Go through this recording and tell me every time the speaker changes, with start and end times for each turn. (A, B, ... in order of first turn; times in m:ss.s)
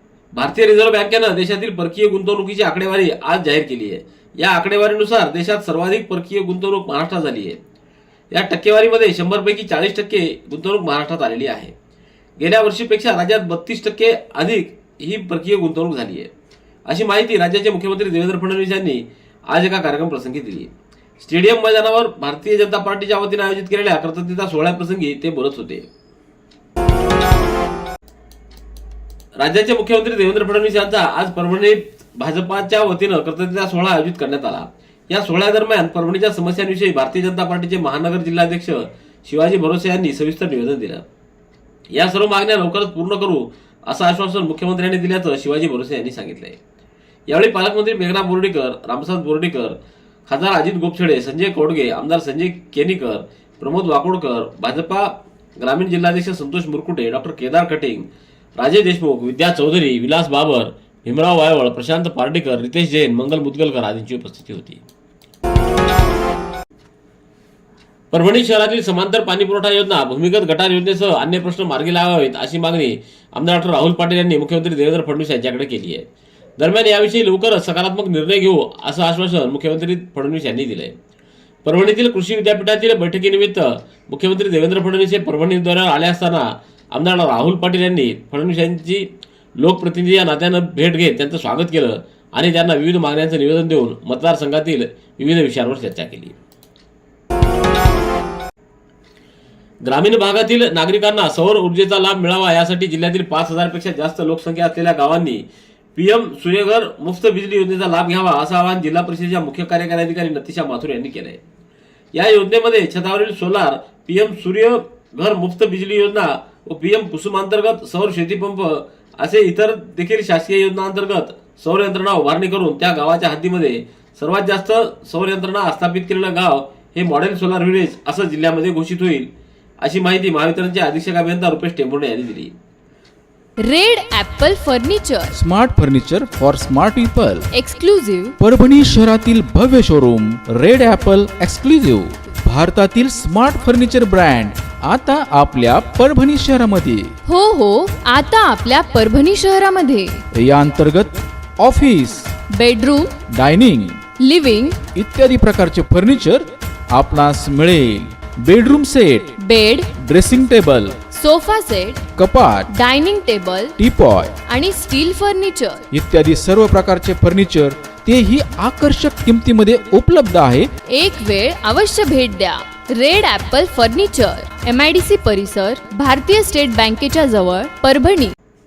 0:00.4-0:07.6 A
0:08.3-0:11.7 A
0:12.4-0:16.3 A
0:16.9-0:20.7 A
0:21.2-0:25.9 A
0:29.4-0:41.0 A
0:41.9-0:46.6 A
0:47.3-1:04.8 A
1:08.1-1:16.1 A
1:16.6-1:20.9 A
1:21.6-1:29.1 A
1:29.6-1:36.4 A
1:39.8-1:51.4 A
1:52.1-2:09.3 A
2:09.8-2:12.5 A
2:13.6-2:15.4 B
2:15.3-2:17.5 C
2:17.5-2:18.3 B
2:18.4-2:27.1 C
2:27.3-2:30.2 B
2:30.4-2:32.3 C
2:32.5-2:33.1 B
2:33.3-2:34.0 C
2:34.2-2:34.8 B
2:34.9-2:39.3 C
2:39.4-2:39.9 B
2:40.0-2:41.0 C
2:41.1-2:42.1 B
2:42.2-2:42.7 C
2:42.7-2:43.7 B
2:43.8-2:44.4 C
2:44.5-2:45.8 B
2:45.9-2:50.7 C
2:50.9-2:58.3 B